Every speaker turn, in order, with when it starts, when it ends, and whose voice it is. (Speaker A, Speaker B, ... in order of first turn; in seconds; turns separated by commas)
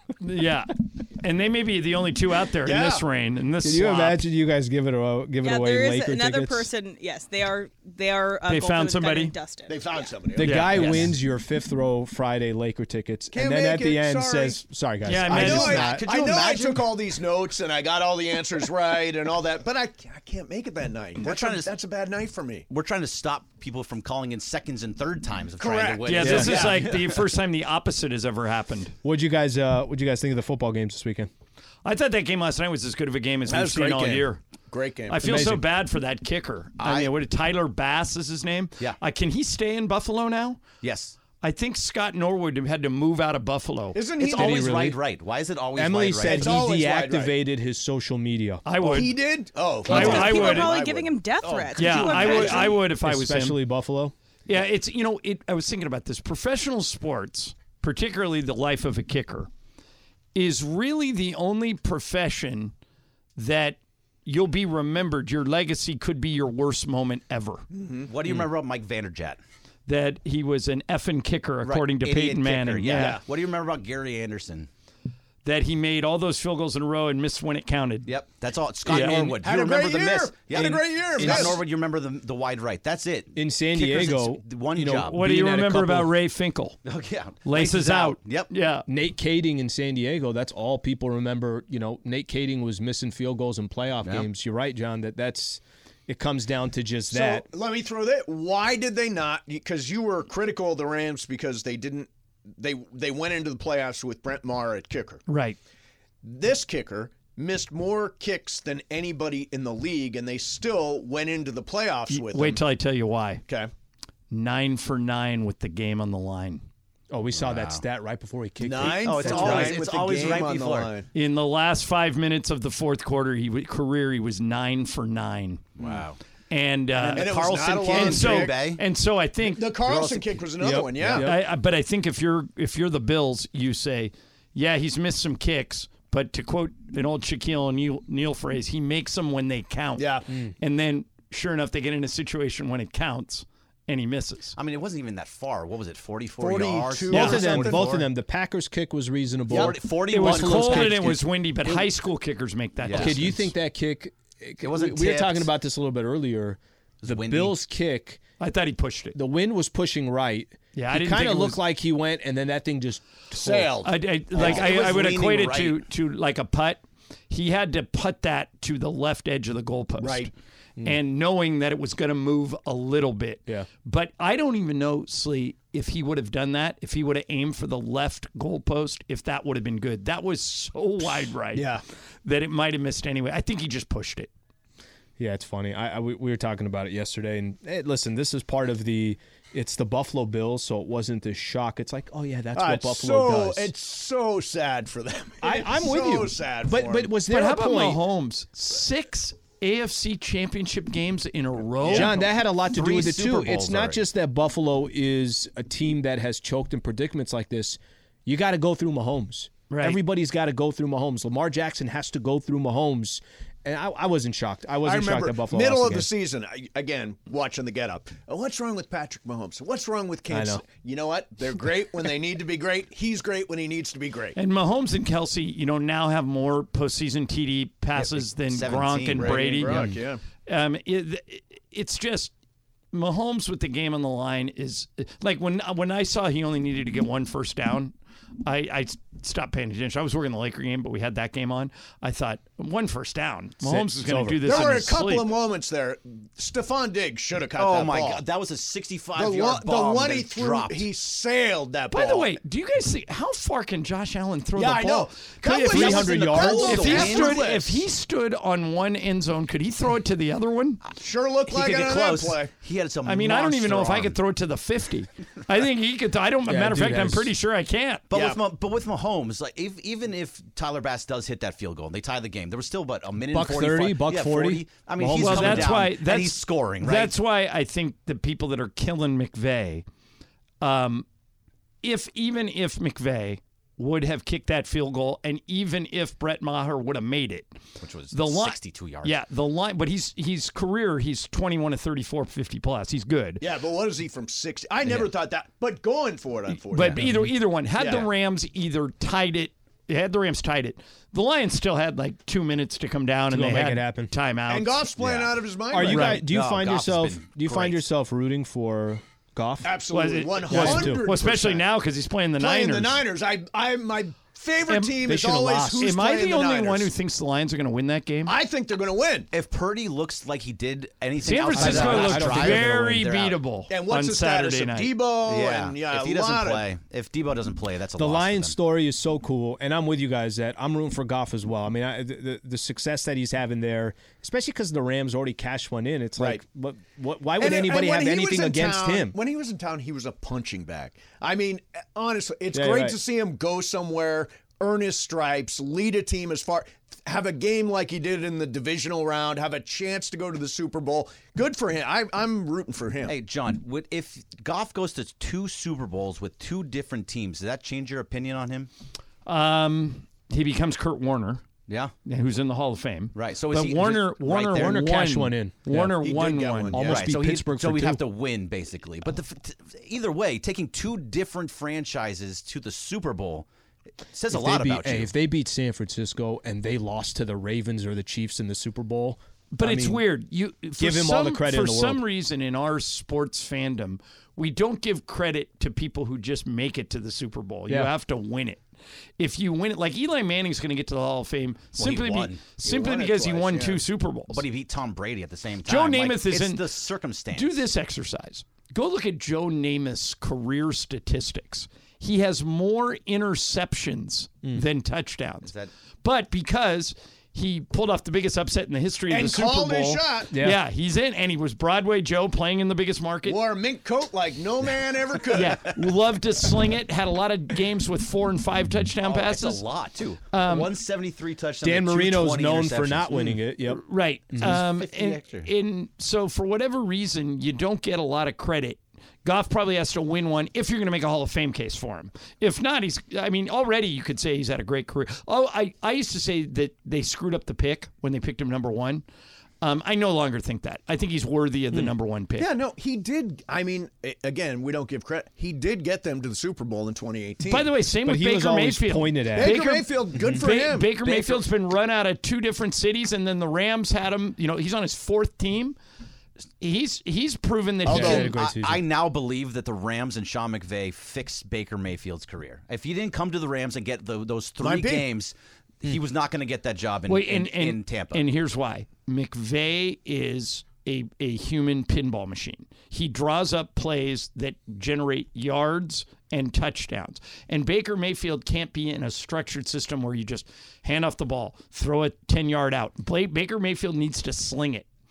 Speaker A: 0.2-4.2, Speaker B: 2.6-3.1, Speaker C: 3.6-6.7, Speaker D: 5.4-10.2, Speaker A: 8.5-9.3, Speaker B: 9.7-10.9, Speaker C: 10.3-16.1, Speaker A: 10.4-11.1, Speaker E: 10.8-11.1, Speaker B: 13.3-14.6, Speaker A: 15.0-15.9, Speaker B: 15.2-22.7, Speaker E: 15.4-17.0, Speaker E: 21.2-21.7, Speaker E: 22.7-27.1, Speaker B: 25.6-27.1, Speaker A: 26.1-28.9, Speaker C: 26.2-26.5, Speaker C: 29.0-31.3, Speaker A: 31.9-34.4, Speaker B: 33.5-35.5, Speaker A: 35.1-40.6, Speaker C: 35.2-35.7, Speaker B: 36.8-37.1, Speaker E: 40.8-41.1, Speaker A: 41.4-44.0, Speaker B: 43.9-44.8, Speaker E: 44.2-46.6, Speaker C: 44.2-45.0, Speaker C: 45.8-48.6, Speaker B: 46.2-47.3, Speaker A: 48.6-49.2, Speaker B: 48.8-52.7, Speaker D: 49.8-52.8, Speaker A: 49.9-50.7, Speaker A: 51.8-53.6, Speaker C: 52.8-54.1, Speaker A: 54.5-59.5, Speaker A: 60.4-62.7, Speaker A: 63.4-67.7, Speaker B: 67.7-68.1, Speaker E: 68.1-69.4, Speaker A: 69.9-73.2, Speaker E: 71.6-74.7, Speaker B: 72.9-73.2, Speaker A: 75.4-78.1, Speaker E: 78.1-85.2, Speaker A: 78.9-79.3, Speaker B: 79.4-81.6, Speaker C: 80.5-81.6, Speaker C: 83.3-86.1, Speaker A: 85.0-86.8, Speaker E: 86.8-88.5, Speaker A: 87.4-88.8, Speaker C: 88.9-97.5, Speaker B: 97.1-105.2, Speaker A: 105.3-105.6, Speaker B: 106.2-112.6, Speaker A: 112.1-113.4, Speaker A: 114.3-116.6, Speaker C: 117.1-119.8, Speaker E: 117.3-117.8, Speaker B: 118.6-121.1, Speaker E: 119.0-120.9, Speaker A: 121.1-125.6, Speaker E: 125.8-126.2, Speaker A: 126.5-127.3, Speaker E: 127.0-128.8, Speaker B: 127.2-128.6, Speaker A: 127.9-129.8, Speaker B: 129.4-131.3, Speaker E: 129.9-130.3, Speaker C: 130.6-131.4, Speaker A: 131.2-140.1, Speaker B: 140.0-140.2, Speaker A: 140.6-144.6, Speaker E: 144.6-148.1, Speaker B: 146.4-148.1, Speaker C: 147.1-151.8, Speaker B: 149.5-149.8, Speaker E: 149.5-151.2, Speaker A: 150.1-153.5, Speaker E: 152.8-153.2, Speaker C: 152.9-158.2, Speaker E: 154.6-155.5, Speaker E: 157.0-157.6, Speaker A: 158.4-159.2, Speaker C: 159.2-163.8, Speaker A: 160.8-161.6, Speaker B: 163.3-164.7, Speaker A: 163.8-170.3, Speaker E: 164.3-165.8, Speaker B: 170.0-170.3, Speaker A: 170.8-181.7, Speaker B: 181.6-181.8, Speaker A: 182.2-184.3, Speaker C: 185.2-193.7, Speaker B: 192.6-197.2, Speaker C: 195.4-198.0, Speaker A: 197.3-202.2, Speaker C: 201.9-216.1, Speaker E: 201.9-204.0, Speaker A: 209.7-210.0, Speaker B: 214.8-224.4, Speaker C: 220.3-220.6, Speaker A: 224.3-229.8, Speaker E: 228.0-229.5, Speaker B: 229.2-230.2, Speaker C: 229.6-230.0, Speaker A: 230.5-232.3, Speaker A: 232.9-237.9, Speaker A: 238.5-245.3, Speaker C: 243.6-244.8, Speaker B: 244.4-248.2, Speaker E: 247.6-250.9, Speaker B: 249.2-252.4, Speaker A: 251.9-260.8, Speaker B: 254.6-257.8, Speaker C: 255.7-257.1, Speaker E: 255.8-257.5, Speaker B: 261.0-262.5, Speaker E: 261.5-264.2, Speaker A: 263.1-268.0, Speaker C: 266.5-267.3, Speaker E: 268.1-277.1, Speaker B: 268.1-268.4, Speaker C: 273.3-275.9, Speaker A: 275.2-279.9, Speaker A: 280.6-281.1, Speaker A: 281.8-287.5, Speaker E: 287.8-289.2, Speaker A: 288.1-293.4, Speaker B: 293.4-297.1, Speaker E: 294.9-295.1, Speaker A: 296.7-304.9, Speaker C: 297.0-297.3, Speaker B: 297.8-298.1, Speaker C: 303.3-304.1, Speaker B: 304.5-306.2, Speaker E: 305.0-305.4, Speaker C: 305.7-309.8, Speaker A: 305.9-306.2, Speaker E: 306.2-307.8, Speaker B: 309.6-311.7, Speaker A: 309.9-313.0, Speaker C: 310.5-311.1, Speaker B: 312.4-316.9, Speaker A: 314.7-315.0, Speaker C: 315.0-315.9, Speaker A: 315.8-318.3, Speaker B: 318.3-319.3, Speaker E: 319.3-323.4, Speaker A: 321.2-324.9, Speaker C: 321.5-323.1, Speaker B: 323.7-326.6, Speaker E: 325.2-328.6, Speaker C: 328.0-339.2, Speaker B: 337.4-353.1, Speaker C: 342.5-343.0, Speaker E: 353.1-358.7, Speaker A: 359.3-361.4, Speaker E: 361.7-361.9, Speaker A: 362.1-366.9, Speaker E: 363.1-364.9, Speaker C: 364.5-366.0, Speaker B: 365.9-367.1, Speaker C: 366.7-368.0, Speaker E: 366.8-373.5, Speaker E: 374.1-375.1, Speaker C: 374.3-380.0, Speaker A: 379.5-388.6, Speaker C: 380.8-382.0, Speaker C: 387.7-387.9, Speaker A: 389.2-394.4, Speaker E: 391.8-392.4, Speaker B: 392.6-393.8, Speaker E: 394.3-397.6, Speaker A: 395.7-396.6, Speaker A: 397.3-405.5, Speaker E: 405.4-405.7, Speaker A: 406.0-413.4, Speaker B: 409.1-410.3, Speaker C: 410.3-410.6, Speaker B: 413.3-415.7, Speaker A: 415.3-419.6, Speaker E: 419.0-423.4, Speaker A: 420.3-420.7, Speaker C: 421.6-424.6, Speaker A: 423.7-439.0, Speaker E: 424.4-425.5, Speaker A: 439.6-442.5, Speaker B: 442.4-447.7, Speaker A: 447.5-455.8, Speaker C: 448.1-449.6, Speaker B: 449.4-451.4, Speaker A: 456.6-458.3, Speaker C: 457.9-458.8, Speaker E: 457.9-468.3, Speaker B: 457.9-458.2, Speaker B: 464.6-465.1, Speaker A: 467.1-484.9